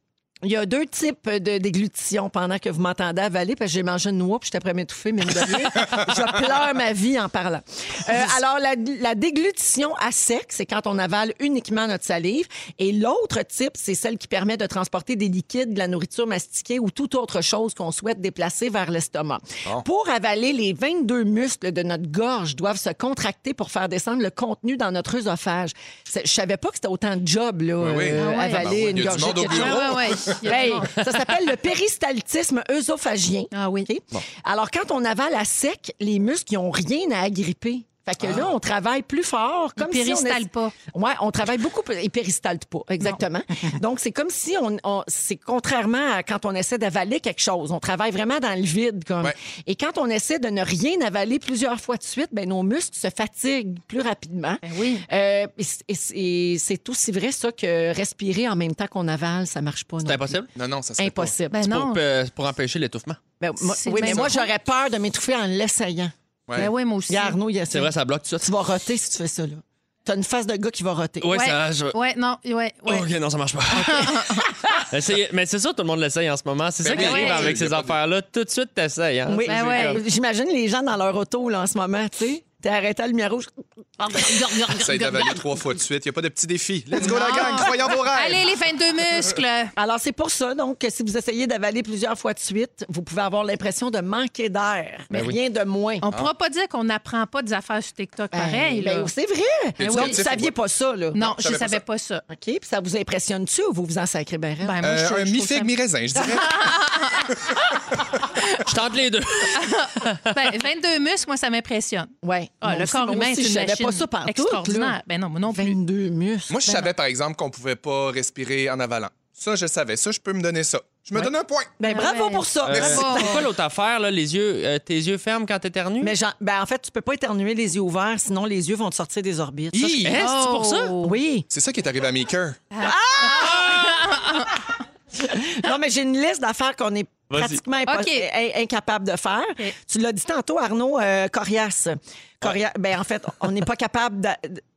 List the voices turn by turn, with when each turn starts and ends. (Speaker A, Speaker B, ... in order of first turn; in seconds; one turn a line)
Speaker A: 0.4-60.4
Speaker B: 27.8-30.4
Speaker C: 28.1-30.9
Speaker C: 33.5-33.9
Speaker B: 38.2-38.5
Speaker C: 39.8-40.7
Speaker C: 54.6-55.0
Speaker D: 60.0-60.5
Speaker B: 60.5-61.3
Speaker A: 61.0-61.7
Speaker C: 61.5-62.0
Speaker D: 61.6-63.2
Speaker A: 63.4-66.1
Speaker C: 63.6-64.5
Speaker C: 66.5-67.4
Speaker A: 67.1-71.3
Speaker D: 67.7-68.5
Speaker D: 71.2-72.0
Speaker C: 71.3-73.1
Speaker D: 72.9-80.0
Speaker C: 73.8-74.5
Speaker B: 76.8-78.0
Speaker C: 76.9-77.5
Speaker A: 79.3-85.6
Speaker C: 79.5-80.0
Speaker B: 84.7-88.5
Speaker A: 86.9-87.8
Speaker C: 87.0-89.7
Speaker A: 89.8-96.0
Speaker C: 96.0-99.1
Speaker A: 98.3-101.2
Speaker B: 99.8-100.5
Speaker C: 99.9-100.2
Speaker B: 101.1-101.8
Speaker C: 101.1-102.2
Speaker A: 102.3-104.9
Speaker C: 104.6-105.7
Speaker B: 104.8-107.2
Speaker C: 106.2-107.4
Speaker D: 108.6-110.3
Speaker C: 109.5-115.8
Speaker A: 112.2-116.9
Speaker B: 116.5-121.7
Speaker A: 121.2-123.5
Speaker C: 121.8-123.3
Speaker D: 122.7-126.1
Speaker B: 122.7-123.2
Speaker A: 126.0-130.3
Speaker D: 129.7-130.9
Speaker C: 130.2-131.2
Speaker A: 131.0-131.5
Speaker B: 131.5-132.6
Speaker C: 132.7-134.7
Speaker A: 132.8-134.2
Speaker A: 135.1-144.6
Speaker D: 137.3-137.6
Speaker C: 137.8-138.2